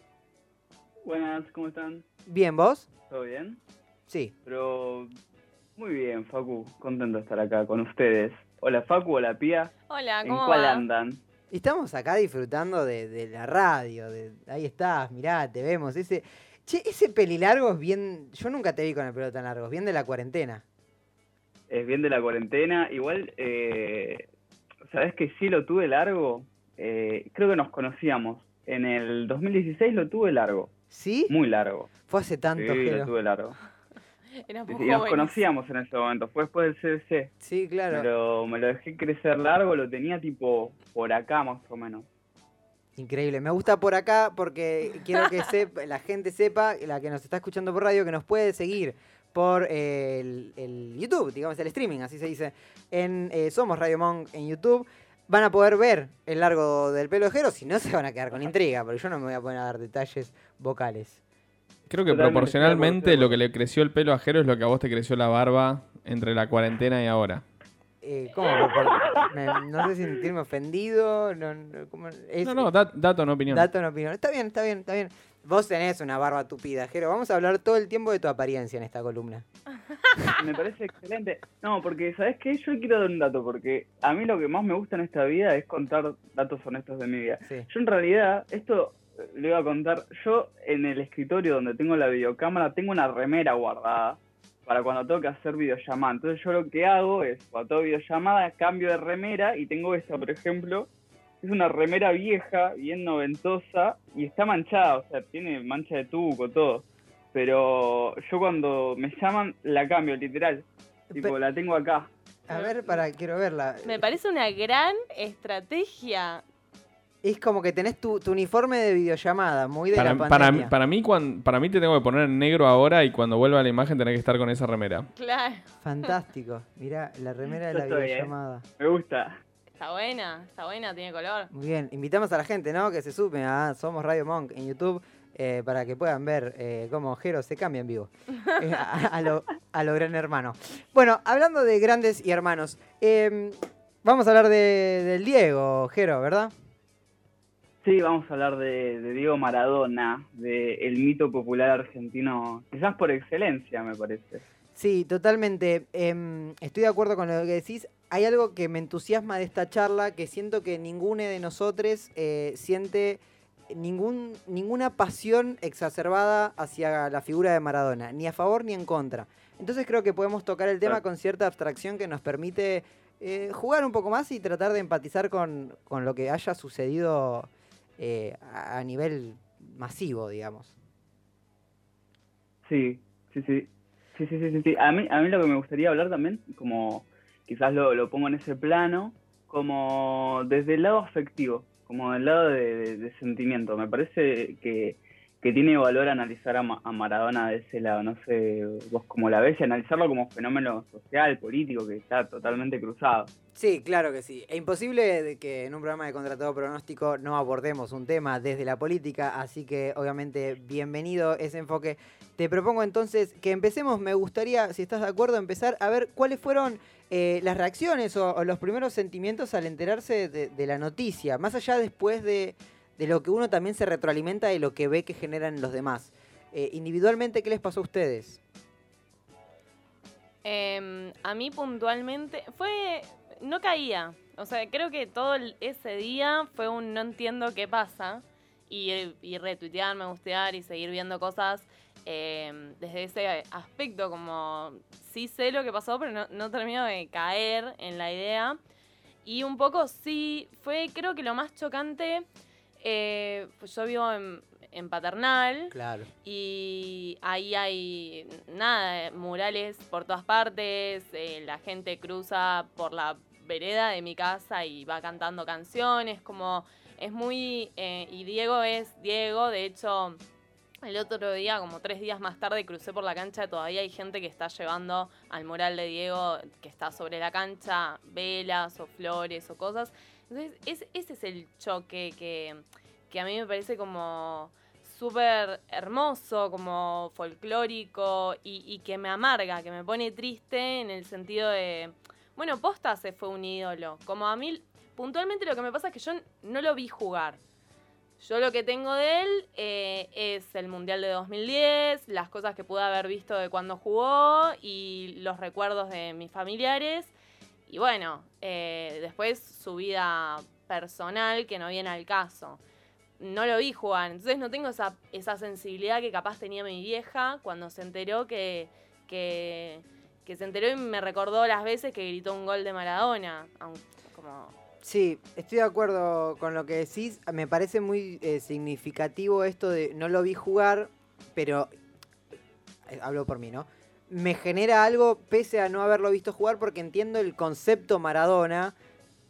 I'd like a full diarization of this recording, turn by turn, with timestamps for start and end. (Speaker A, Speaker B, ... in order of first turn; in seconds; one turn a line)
Speaker A: 1.0-2.0
Speaker B: 2.3-2.9
Speaker A: 3.1-3.6
Speaker B: 4.1-4.3
Speaker A: 4.5-5.1
Speaker A: 5.8-9.7
Speaker C: 9.9-10.9
Speaker A: 10.2-11.2
Speaker B: 11.5-20.6
Speaker A: 21.7-24.2
Speaker A: 24.9-30.7
Speaker B: 30.9-31.3
Speaker A: 31.3-31.9
Speaker B: 32.1-33.1
Speaker A: 32.5-33.6
Speaker C: 34.3-35.4
Speaker A: 34.7-37.3
Speaker B: 37.4-38.1
Speaker A: 37.9-42.1
Speaker B: 43.0-61.2
Speaker D: 61.9-67.4
Speaker A: 62.1-63.4
Speaker B: 68.0-72.7
Speaker A: 68.6-69.3
Speaker D: 72.4-73.7
Speaker B: 73.5-79.4
Speaker A: 80.3-100.9
Speaker A: 101.4-112.1
Speaker B: 112.5-114.1
Speaker C: 112.5-113.0
Speaker C: 113.8-116.4
Speaker B: 117.2-120.7
Speaker D: 119.9-125.1
Speaker C: 125.2-126.1
Speaker B: 125.8-128.6
Speaker A: 127.5-129.4
Speaker C: 129.8-131.5
Speaker B: 131.5-146.5
Speaker A: 147.8-154.4
Speaker B: 154.7-180.7
Speaker A: 182.6-203.3
Speaker B: 203.5-228.4
Speaker C: 230.4-248.6
Speaker C: 249.2-252.2
Speaker C: 252.8-270.2
Speaker B: 255.7-256.1
Speaker C: 270.8-297.4
Speaker C: 298.2-307.1
Speaker C: 307.7-312.6
Speaker C: 313.2-324.5
Speaker B: 324.8-331.7
Speaker B: 332.9-338.7